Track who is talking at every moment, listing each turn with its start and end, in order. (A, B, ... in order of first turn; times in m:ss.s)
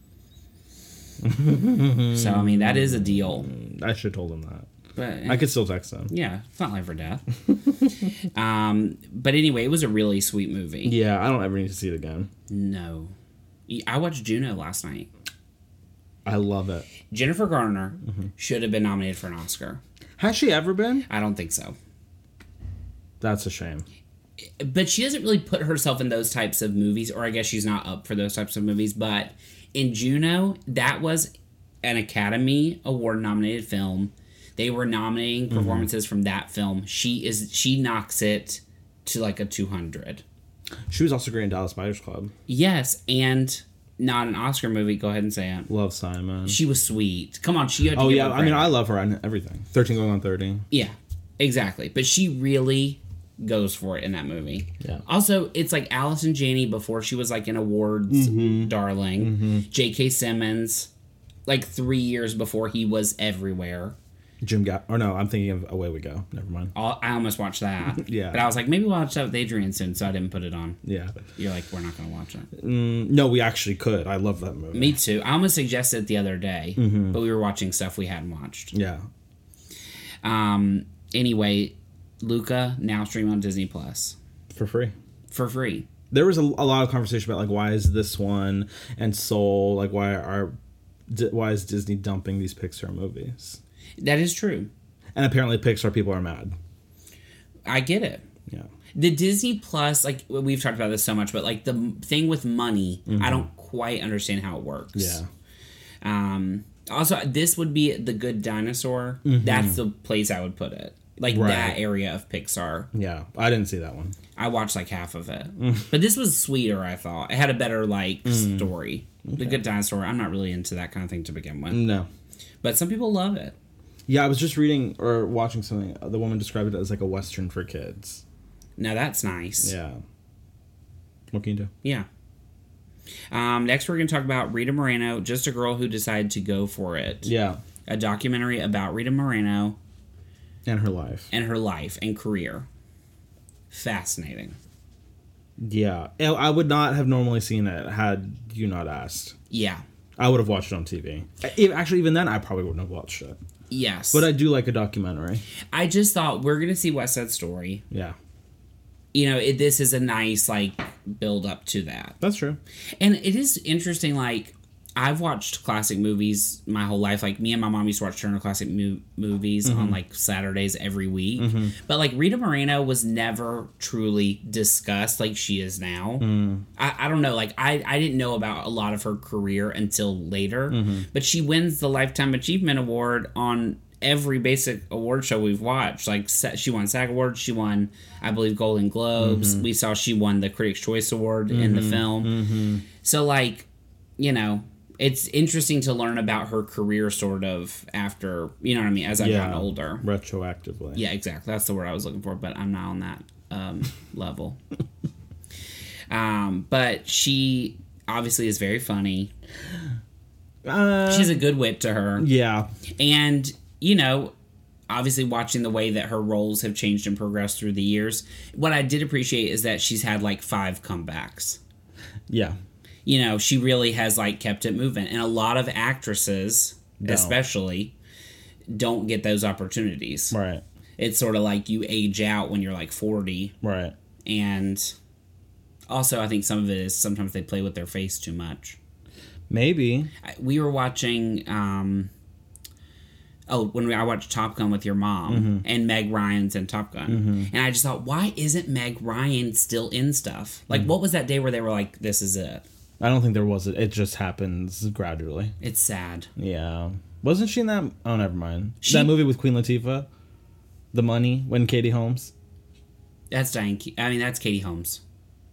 0:01.2-0:04.7 A
0:02.1-0:03.5 B
0:05.0-0:05.5 B
0:05.2-0:06.1 A
0:06.1-0:07.3 B
0:08.3-0:11.0 B
0:10.8-0:12.3 A
0:12.5-0:13.1 B
0:13.7-0:15.1 B
0:16.2-0:16.9 A
0:17.1-0:19.8 B
0:20.2-0:21.0 A
0:21.1-0:21.8 B
0:23.2-0:23.8 A
0:24.6-0:31.3 B
0:31.8-0:40.2 B
0:35.5-0:35.9 A
0:40.9-0:42.3 A
0:42.5-0:45.7 B
0:45.7-0:46.6 A
0:46.5-0:48.8 B
0:47.9-0:50.6 A
0:50.7-1:00.9 B
0:58.1-0:59.7 A
1:01.4-1:03.9 B
1:04.4-1:06.7 A
1:06.7-1:10.8 B
1:08.0-1:08.5 A
1:10.8-1:11.2 A
1:11.4-1:12.5 B
1:12.5-1:15.0 A
1:14.7-1:18.7 B
1:16.8-1:17.2 A
1:18.7-1:19.0 A
1:20.2-1:24.2 B
1:24.5-1:24.9 A
1:25.3-1:25.8 B
1:26.1-1:30.6 A
1:31.1-1:33.6 A
1:34.0-1:34.7 B
1:35.1-1:36.5 A
1:37.6-1:38.2 B
1:38.9-1:45.2 B
1:43.1-1:43.5 A
1:44.9-1:45.3 A
1:46.0-1:52.9 B
1:49.2-1:49.8 A
1:51.3-1:51.8 A
1:52.9-1:54.2 A
1:54.4-2:01.8 B
1:55.6-1:55.9 A
1:58.2-1:58.7 A
1:59.2-1:59.6 A
2:01.7-2:02.1 A
2:02.6-2:03.5 B
2:04.1-2:08.2 A
2:08.8-2:09.7 B
2:09.6-2:10.0 A
2:11.3-2:11.7 A
2:13.3-2:17.3 B
2:17.2-2:17.6 A
2:17.9-2:19.8 B
2:20.6-2:21.3 A
2:21.3-2:22.7 B
2:23.7-2:24.6 B
2:25.6-2:29.3 A
2:29.5-2:29.8 B
2:30.2-2:33.4 A
2:33.7-2:34.3 B
2:34.1-2:35.4 A
2:35.7-2:37.8 B
2:37.9-2:38.2 A
2:39.1-2:42.2 B
2:42.2-2:42.6 A
2:43.0-3:12.3 B
2:49.6-2:50.0 A
2:51.4-2:51.7 A
2:56.2-2:56.6 A
3:00.7-3:01.0 A
3:09.2-3:09.7 A
3:11.5-3:12.8 A
3:13.0-3:13.7 B
3:14.2-3:20.0 B
3:19.2-3:21.0 A
3:20.9-3:24.6 B
3:26.1-3:29.3 B
3:30.6-3:31.5 A
3:31.0-3:32.3 B
3:32.2-3:32.7 A
3:33.0-3:34.3 B
3:34.9-3:41.6 B
3:42.3-3:42.6 A
3:43.0-3:47.9 B
3:47.0-3:47.4 A
3:48.7-3:50.3 B
3:50.3-3:50.6 A
3:51.0-3:53.5 B
3:53.6-3:53.9 A
3:54.2-3:54.9 B
3:55.9-3:58.8 B
3:59.5-4:00.1 A
4:00.2-4:02.1 B
4:03.5-4:12.6 B
4:05.3-4:05.6 A
4:07.1-4:07.5 A
4:13.0-4:15.5 A
4:15.6-4:16.3 B
4:16.4-4:20.1 A
4:18.8-4:19.2 B
4:20.9-4:22.3 A
4:23.3-4:25.0 B